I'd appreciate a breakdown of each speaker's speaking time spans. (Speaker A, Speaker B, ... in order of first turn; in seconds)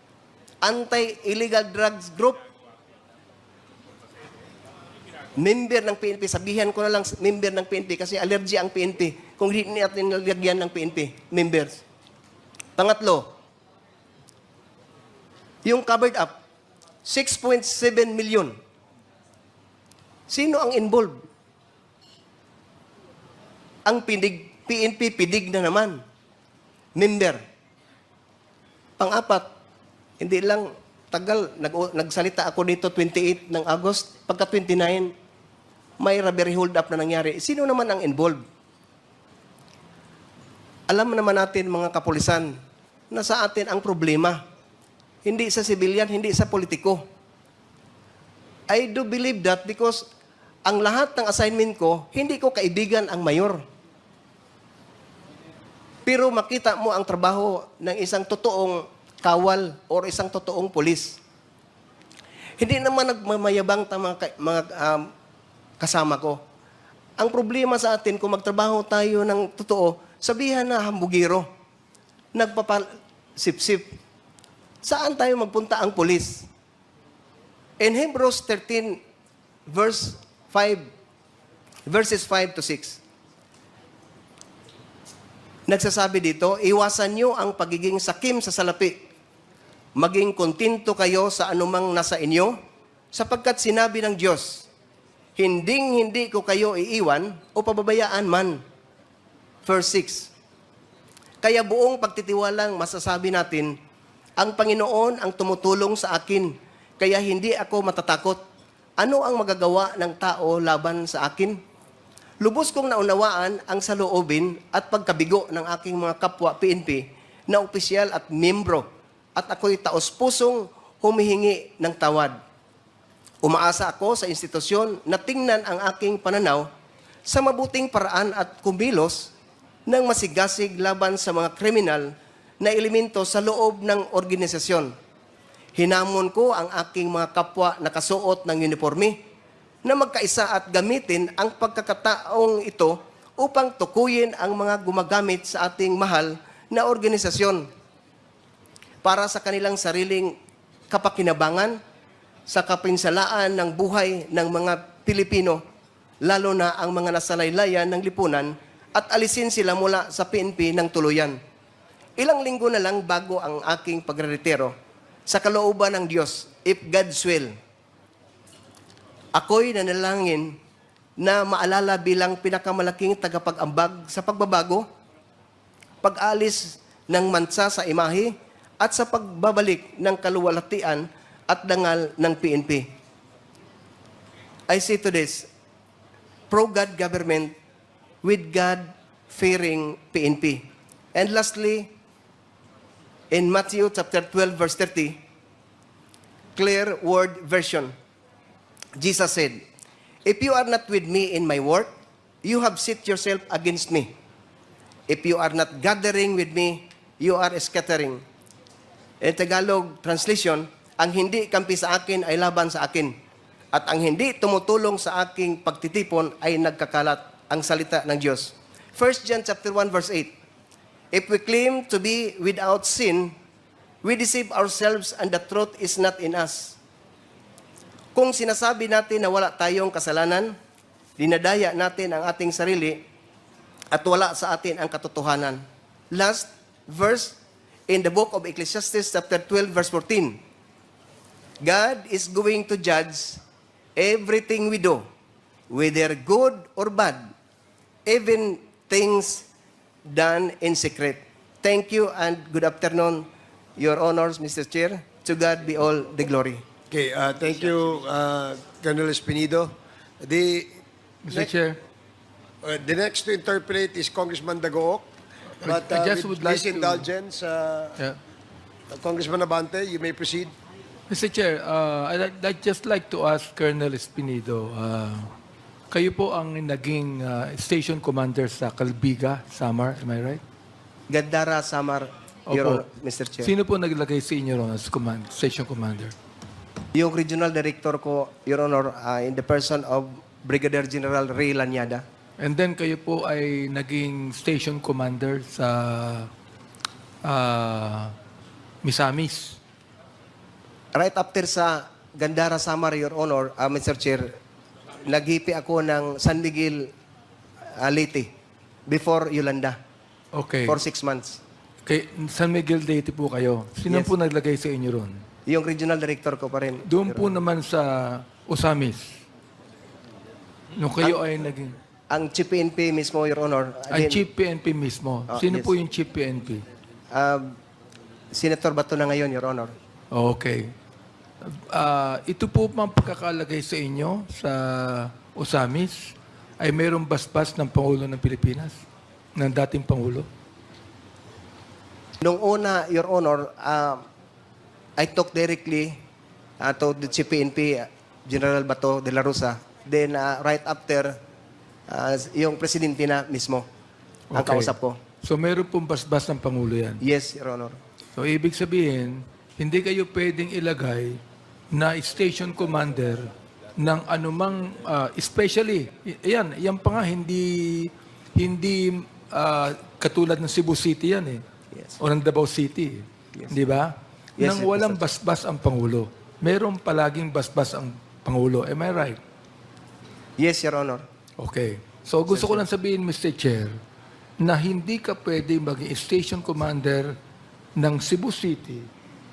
Speaker A: 0.6-2.4, 5.4-11.8, 12.8-13.3, 15.6-16.4, 17.0-18.5, 20.3-21.2, 23.9-26.0, 26.9-27.4, 29.0-29.4, 30.2-35.1, 36.0-38.4, 40.9-42.5, 43.1-44.4, 45.2-47.0, 48.7-50.0, 50.6-53.6, 56.0-61.2, 62.6-65.1, 65.8-66.4, 67.2-71.5, 72.3-73.9, 74.8-76.5, 77.8-79.0, 79.7-80.8, 81.9-83.0, 85.7-89.0, 90.0-92.5, 93.1-94.7, 95.3-98.6, 99.6-100.3, 101.4-103.8, 104.4-108.4, 109.0-111.6, 112.4-122.3, 123.4-126.7, 127.3-129.3, 129.9-134.9, 135.8-139.2, 139.8-147.7, 149.0-150.3, 150.9-151.8, 152.5-155.6, 156.2-161.4, 162.2-164.7, 165.3-167.5, 169.3-170.6, 171.2-174.8, 176.0-182.9, 184.7-185.5, 186.5-187.5, 188.2-191.9, 193.3-195.2, 196.6-197.9, 199.0-199.6, 200.2-201.9, 202.4-204.1, 205.1-208.2, 209.2-213.1, 213.7-220.3, 221.1-223.3, 224.0-226.8, 228.1-230.5, 231.2-233.0, 233.9-240.4, 241.6-243.4, 243.9-245.0, 245.7-247.2, 248.1-249.5, 250.1-256.6, 281.1-283.5, 286.9-292.0, 300.9-304.3, 305.1-306.9, 307.7-308.3, 308.9-309.8, 310.7-311.4, 315.5-317.4, 322.1-324.2, 325.3-325.7, 327.1-327.6, 328.3-329.7, 342.2-344.0, 345.0-345.9, 346.6-351.1, 351.9-353.6, 354.3-355.0, 357.0-357.8, 374.4-375.1, 380.4-381.0, 382.4-382.6
Speaker B: 256.9-260.8, 262.6-265.1, 265.6-268.0, 268.9-270.5
Speaker C: 261.2-261.8, 265.6-267.1, 271.1-275.3, 275.9-280.4, 282.5-282.8, 283.4-286.1, 292.4-296.3, 297.2-298.1, 298.8-299.6, 310.3-310.8, 311.9-315.2, 316.9-319.2, 320.8-321.7, 323.9-326.6, 330.1-330.6, 331.4-338.8, 339.4-340.3, 354.3-357.0, 358.1-371.4, 372.0-379.2, 381.4-383.8, 384.4-387.1, 387.8-388.9